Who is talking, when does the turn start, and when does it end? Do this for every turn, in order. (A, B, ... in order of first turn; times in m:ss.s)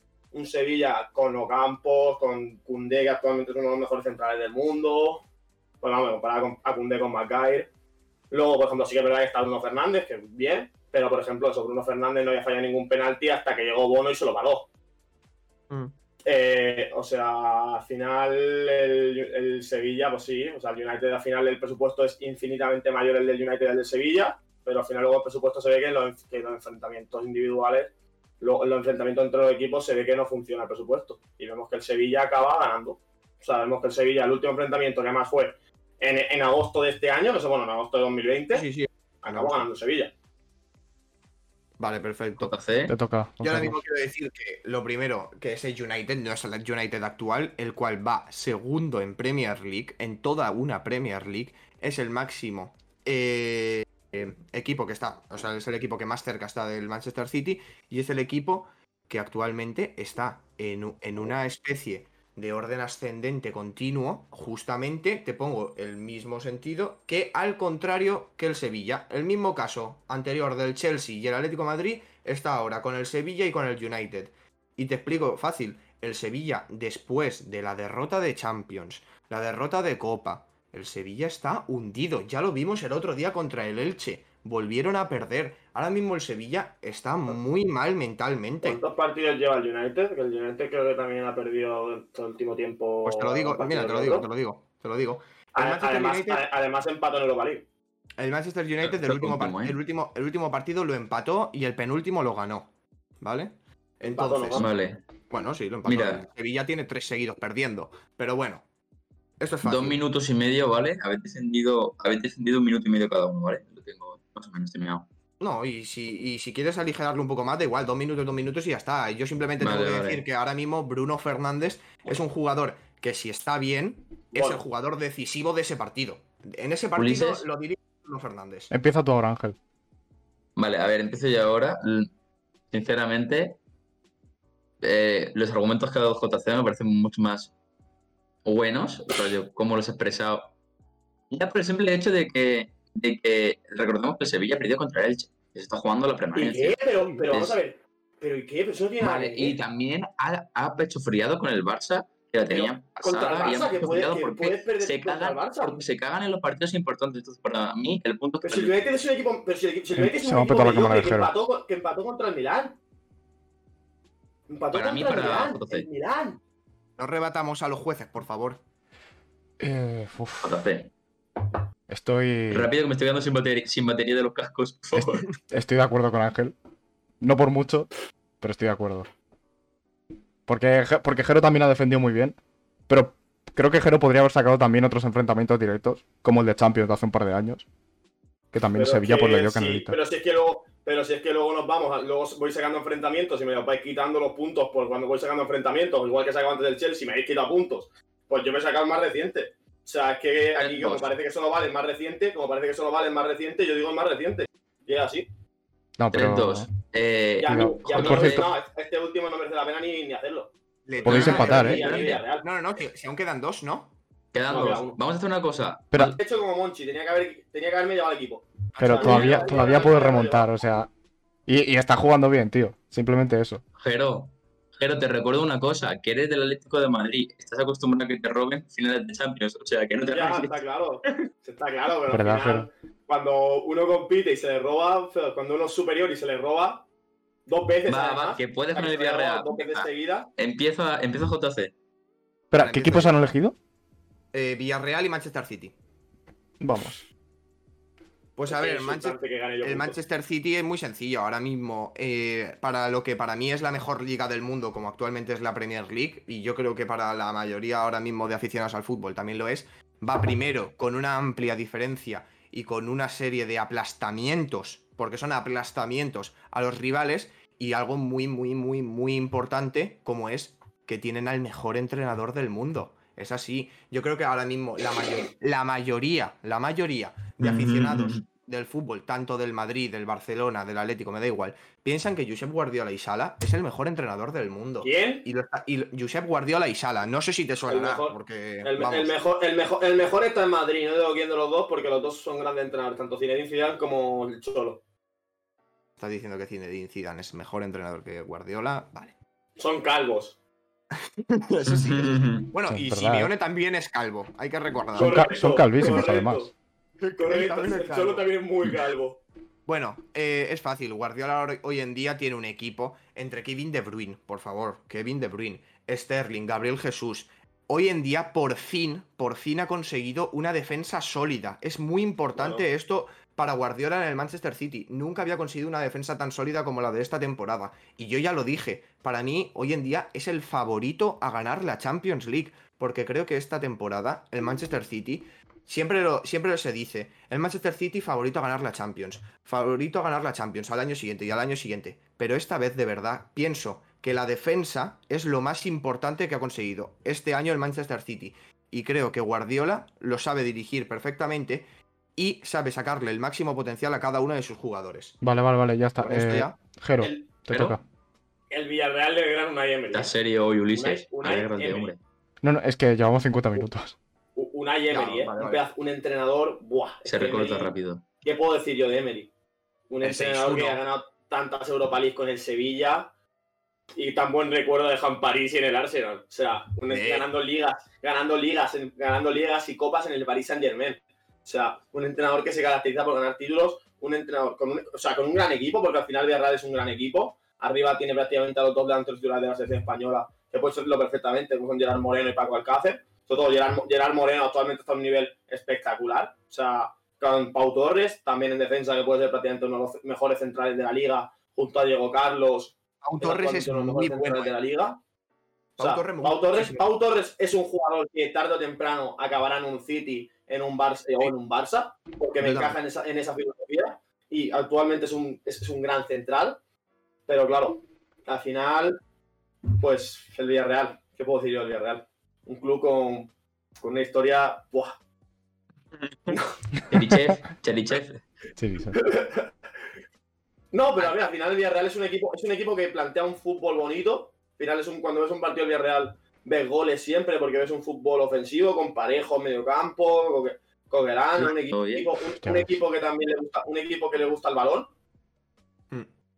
0:00.3-0:05.2 A
0:05.8-0:07.7 A
0:08.3-0:14.7 A
0:16.2-0:38.6 A
0:38.5-0:39.6 B
0:39.2-0:40.1 A
0:41.8-0:42.5 B
0:42.4-0:42.9 C
0:42.9-0:43.8 D
0:43.4-1:28.8 B
1:28.6-1:34.3 A
1:33.0-1:36.4 B
1:35.5-1:37.6 A
1:38.2-1:44.7 B
1:38.8-1:39.8 C
1:44.0-1:44.7 A
1:44.6-1:45.0 C
1:45.3-1:48.6 B
1:45.8-1:46.3 C
1:49.4-1:50.0 B
1:49.6-1:55.1 C
1:55.4-2:08.7 B
1:59.6-2:00.2 C
2:04.3-2:04.6 A
2:07.0-2:07.4 C
2:08.7-2:09.6 D
2:10.6-2:12.1 C
2:12.7-2:13.6 C
2:14.8-2:17.5 C
2:18.4-2:20.5 C
2:21.3-2:27.6 C
2:26.3-2:29.6 A
2:27.0-2:27.2 B
2:29.0-2:38.7 C
2:32.5-2:35.8 A
2:38.4-2:42.8 A
2:40.0-2:41.3 D
2:44.5-2:46.4 A
2:44.7-2:45.9 C
2:47.0-2:48.6 B
2:49.6-2:50.6 D
2:50.4-2:50.9 C
2:51.9-2:52.7 D
2:52.5-2:55.3 C
2:54.9-2:55.3 B
2:55.5-2:56.5 D
2:57.2-2:57.9 D
2:58.4-2:59.1 D
3:00.5-3:02.4 D
3:02.9-3:07.6 D
3:08.5-3:10.0 D
3:08.7-3:25.3 A
3:20.6-3:21.1 C
3:26.0-3:26.7 D
3:26.1-3:28.5 C
3:27.4-3:30.5 A
3:27.5-3:28.5 D
3:30.9-3:33.9 B
3:31.0-3:32.2 C
3:31.0-3:31.8 D
3:31.1-3:32.4 A
3:34.3-3:36.2 C
3:34.5-3:35.0 A
3:36.0-3:40.5 A
3:38.7-3:39.9 B
3:38.8-3:40.9 D
3:41.5-3:43.6 D
3:43.8-3:50.6 C
3:50.0-3:56.8 A
3:52.1-3:52.7 D
3:57.5-4:00.3 A
3:57.9-4:01.7 C
4:02.5-4:03.5 D
4:02.6-4:03.2 B
4:04.3-4:05.7 B
4:06.6-4:07.0 D
4:08.4-4:49.1 B
4:08.5-4:10.0 A
4:37.4-4:38.2 C
4:44.8-4:45.2 A
4:47.7-4:54.8 A
4:56.0-4:59.1 B
4:59.6-5:00.4 A
5:00.9-5:05.2 B
5:01.6-5:02.5 C
5:02.7-5:03.3 D
5:05.0-5:06.5 D
5:05.0-5:09.2 A
5:07.2-5:08.3 B
5:09.6-5:55.2 B
5:22.4-5:22.6 A
5:55.2-5:57.8 D
5:56.0-5:56.6 B
5:57.0-5:57.3 A
5:57.5-5:57.8 C
5:58.5-6:00.1 A
5:59.9-6:02.0 C
6:00.7-6:01.9 A
6:02.4-6:04.0 D
6:04.4-6:09.3 A
6:04.9-6:05.6 B
6:07.0-6:08.0 C
6:09.9-6:13.1 A
6:10.0-6:10.8 B
6:14.0-6:45.0 A
6:16.9-6:17.3 B
6:43.0-6:44.5 B
6:45.8-6:56.6 A
6:45.8-6:46.8 B
6:52.4-6:52.8 B
6:57.3-6:59.0 A
6:59.8-7:05.0 A
7:06.9-7:08.2 C
7:07.0-7:07.3 D
7:08.6-7:09.0 D
7:08.9-7:09.5 A
7:10.7-7:24.9 A
7:21.4-7:22.1 C
7:22.4-7:22.8 D